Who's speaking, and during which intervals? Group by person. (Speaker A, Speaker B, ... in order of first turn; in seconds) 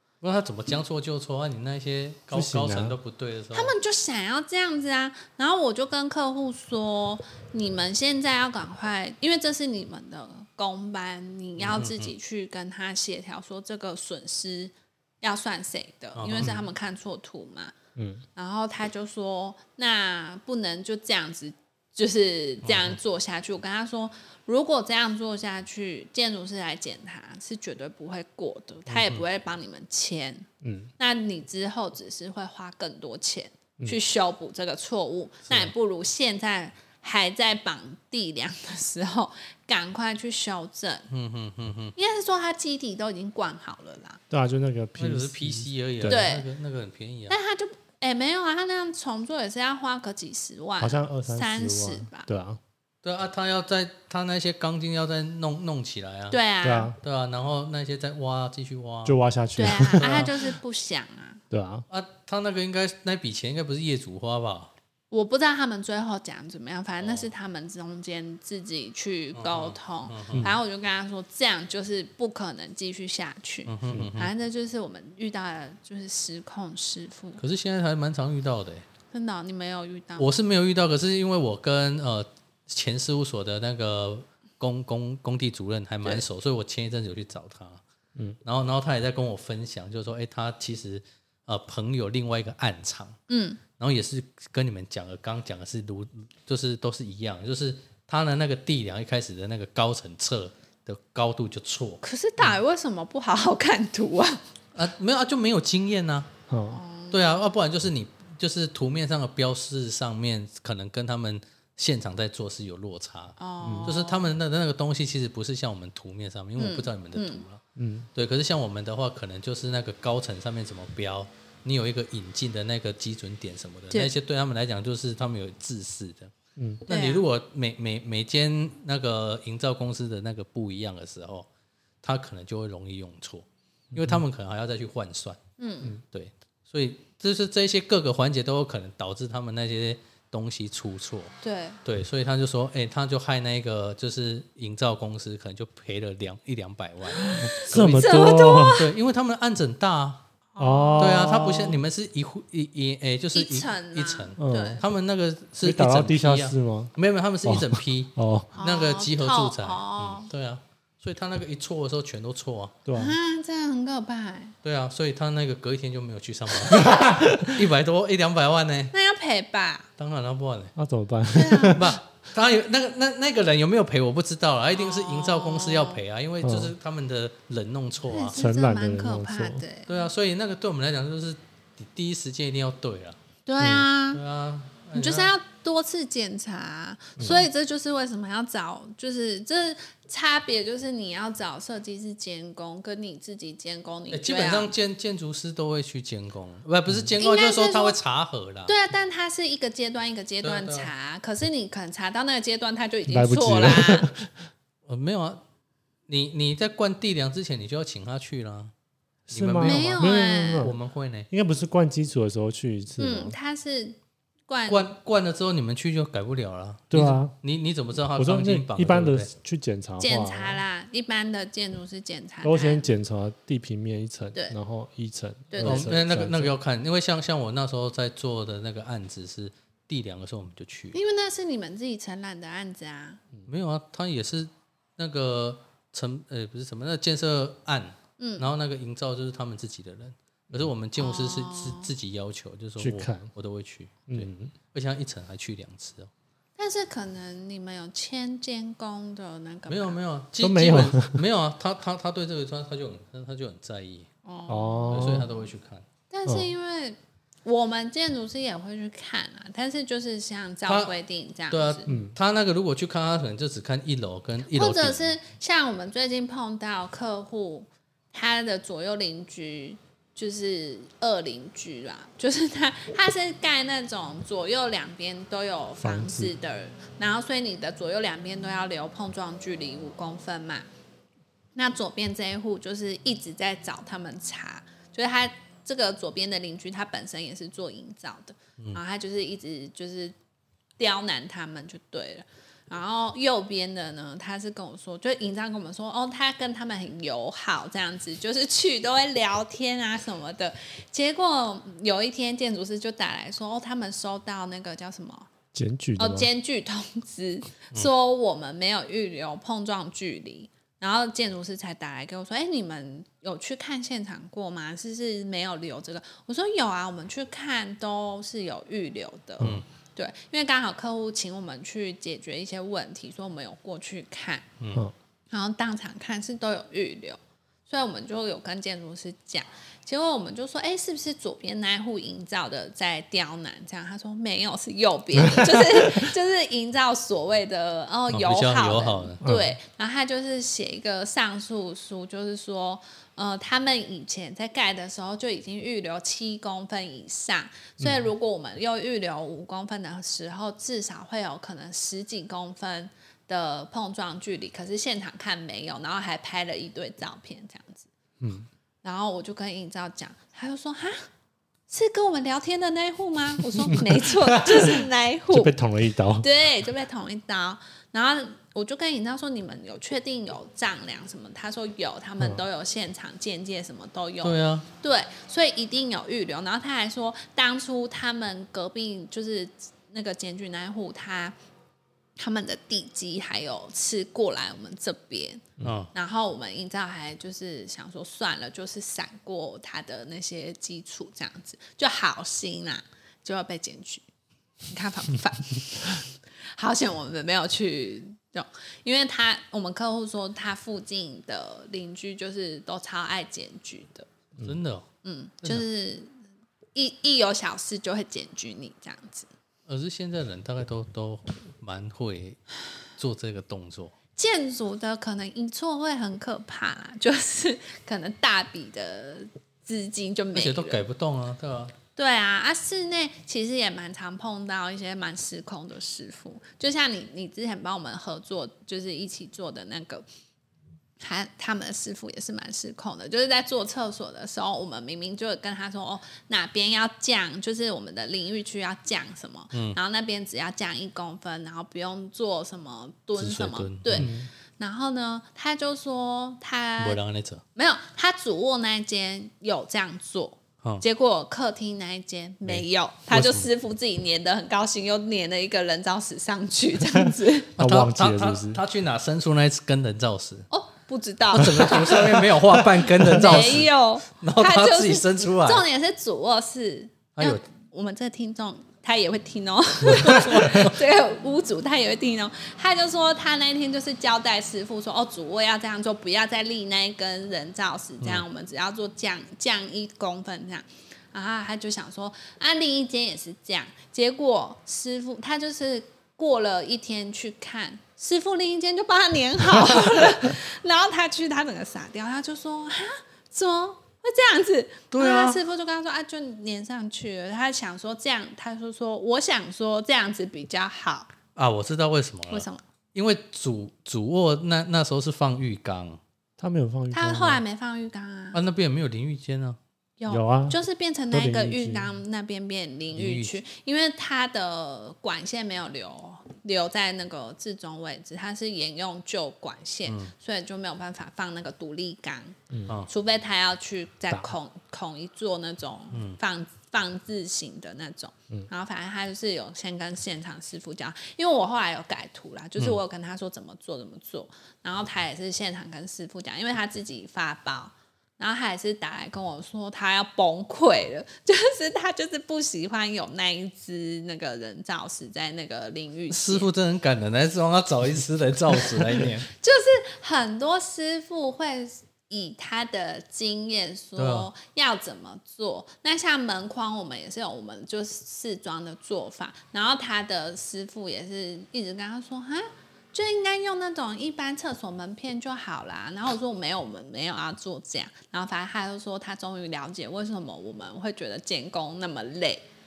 Speaker A: 0.2-3.7, 11.6-12.1, 16.2-16.6, 22.6-23.0, 28.9-29.2, 41.1-41.9, 45.0-47.3, 53.0-56.4, 57.0-60.3, 61.9-64.7, 67.0-67.3, 69.3-70.5, 73.7-74.3, 77.4-78.8, 80.2-87.8, 88.4-93.2, 93.8-102.5, 104.7-106.3, 107.1-117.6, 118.1-126.3, 126.8-131.5, 132.0-135.4, 136.1-141.3, 141.8-150.2, 151.0-162.8, 164.6-168.9, 170.0-170.7, 171.7-178.4, 179.9-183.2, 184.1-185.3, 194.1-198.7, 200.4-200.9, 204.8-205.4, 206.1-208.7, 209.3-211.3, 214.7-219.3, 225.6-231.0, 233.5-246.1, 249.7-254.1, 254.9-255.8, 260.7-260.9, 261.5-265.1, 319.4-319.6, 324.6-324.8, 338.1-339.2, 374.2-374.7, 385.6-385.9, 404.4-404.9, 409.7-412.4, 412.9-413.9, 420.3-421.7, 439.5-439.8, 443.2-444.1, 446.8-447.4, 452.4-453.5, 457.6-460.5, 461.3-465.6, 467.1-467.4, 469.9-470.8, 494.9-495.4, 501.4-506.0, 508.3-509.6, 512.9-513.3, 519.9-520.1, 525.9-526.2, 546.1-549.3, 554.0-554.3
Speaker B: 2.3-3.0, 17.9-18.2, 30.6-30.9, 44.3-46.2, 50.8-52.6, 56.6-57.0, 59.0-60.3, 61.5-61.9, 70.3-70.6, 106.5-106.8, 113.6-113.9, 117.8-118.1, 126.6-126.8, 133.9-134.2, 147.2-148.8, 150.6-151.8, 154.4-154.8, 155.6-156.9, 157.4-158.5, 162.8-163.2, 166.7-167.5, 170.8-172.0, 176.4-176.7, 178.3-179.6, 183.6-183.9, 187.2-187.4, 203.1-204.3, 209.3-210.8, 211.3-213.3, 216.9-217.3, 218.2-220.6, 222.4-226.5, 242.8-243.3, 244.1-244.5, 250.4-251.2, 254.5-255.3, 261.9-262.1, 275.8-276.3, 305.5-306.3, 335.4-336.0, 339.2-339.5, 358.2-358.5, 363.6-366.3, 443.9-444.3, 457.6-458.6, 506.4-507.4, 510.1-510.6, 511.1-511.9, 522.5-522.8
Speaker C: 3.5-17.7, 18.4-30.5, 31.0-41.1, 42.0-44.2, 46.0-46.5, 47.3-52.3, 56.3-56.9, 59.6-61.4, 65.1-77.4, 79.1-80.3, 93.3-93.6, 102.0-104.4, 106.7-107.3, 113.4-114.3, 116.6-117.4, 126.9-127.2, 135.6-136.0, 141.4-141.8, 147.1-148.9, 150.5-151.3, 153.3-154.8, 158.6-160.3, 162.9-164.6, 168.9-169.9, 171.3-171.8, 174.7-176.0, 178.1-180.1, 183.4-184.2, 184.9-194.7, 197.2-198.0, 198.7-204.1, 209.6-210.7, 213.0-214.9, 220.0-222.9, 225.5-225.9, 230.9-233.2, 238.2-238.5, 241.0-241.9, 246.6-250.0, 254.2-255.1, 256.1-261.9, 264.5-280.7, 281.6-290.1, 290.8-305.3, 306.0-324.4, 325.3-357.9, 358.8-361.1, 361.7-365.6, 366.2-381.3, 382.2-394.1, 394.7-404.1, 405.0-406.1, 406.7-409.3, 414.1-420.8, 421.9-430.1, 431.0-447.0, 447.6-457.5, 460.5-462.2, 463.0-501.1, 502.3-502.6, 506.9-508.4, 510.0-522.4, 522.9-546.5, 549.3-572.5